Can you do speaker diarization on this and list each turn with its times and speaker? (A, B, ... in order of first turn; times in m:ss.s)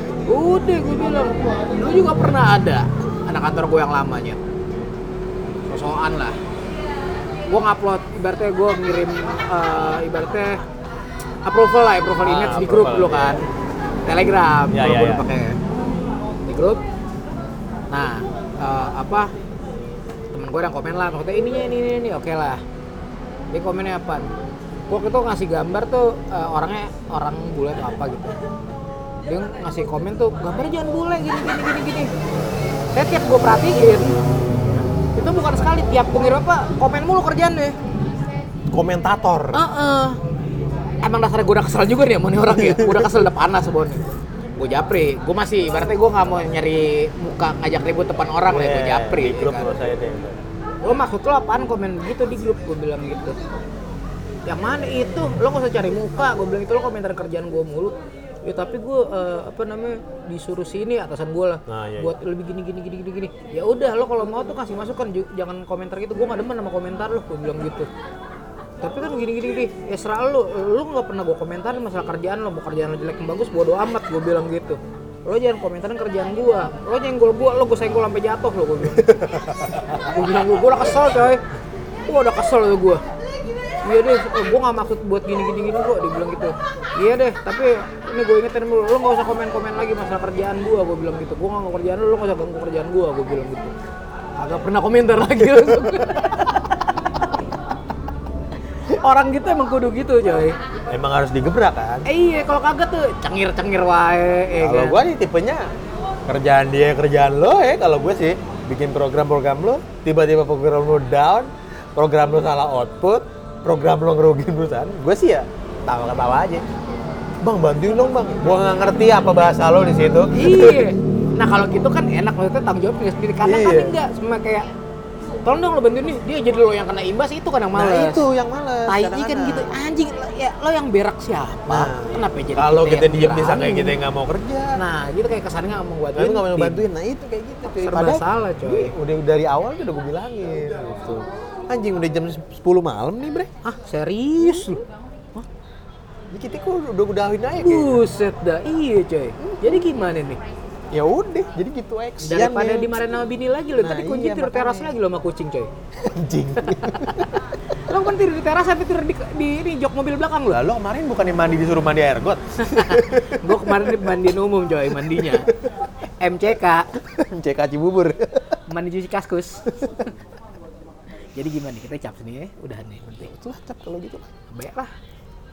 0:00.3-0:04.4 A
0:05.7-0:06.4 A
0:07.5-0:10.6 A
0:11.4-0:13.5 A
0:12.2-0:13.4 B
0:14.1-0:15.6 A
0:14.7-0:15.2 B
0:16.5-0:16.8 A
0:17.9-0:19.3 A
0:20.3-0:22.6 A
0:23.5-0:24.3 A
0:24.9-0:28.4 A
0:29.3-0:32.1 A
0:32.9-0:34.2 A
0:35.2-0:37.8 A
0:38.7-0:39.6 B
0:39.5-0:40.2 A
0:41.0-0:44.0 A
0:42.5-0:43.1 B
0:44.6-0:49.8 A
0:48.5-0:50.4 B
0:50.8-0:53.4 A
0:54.5-1:07.9 A
1:01.7-1:02.2 B
1:08.8-1:21.4 A
1:19.0-1:20.9 B
1:22.1-1:23.0 A
1:23.8-1:33.7 A
1:34.4-1:36.5 A
1:38.8-1:40.6 A
1:40.9-1:42.1 B
1:42.1-1:45.0 A
1:44.6-1:45.7 B
1:46.3-1:56.6 B
1:57.4-2:00.9 B
2:00.3-2:04.7 A
2:03.4-2:04.0 B
2:05.4-2:08.2 A
2:07.8-2:09.8 B
2:08.9-2:14.0 A
2:11.7-2:14.8 B
2:14.8-2:16.9 A
2:16.2-2:23.5 B
2:17.7-2:18.9 A
2:23.6-2:24.8 A
2:26.3-2:28.0 B
2:27.6-2:30.4 A
2:29.4-2:29.9 B
2:30.9-2:33.0 B
2:32.2-2:35.7 A
2:33.8-2:35.0 B
2:36.0-2:37.3 B
2:36.6-2:37.3 A
2:37.9-2:40.6 A
2:40.5-2:44.1 B
2:42.6-2:45.5 A
2:44.9-2:45.7 B
2:46.2-2:46.9 A
2:47.0-2:48.6 B
2:48.7-2:50.1 A
2:51.4-2:53.3 A
2:53.1-2:54.3 B
2:54.5-2:54.9 A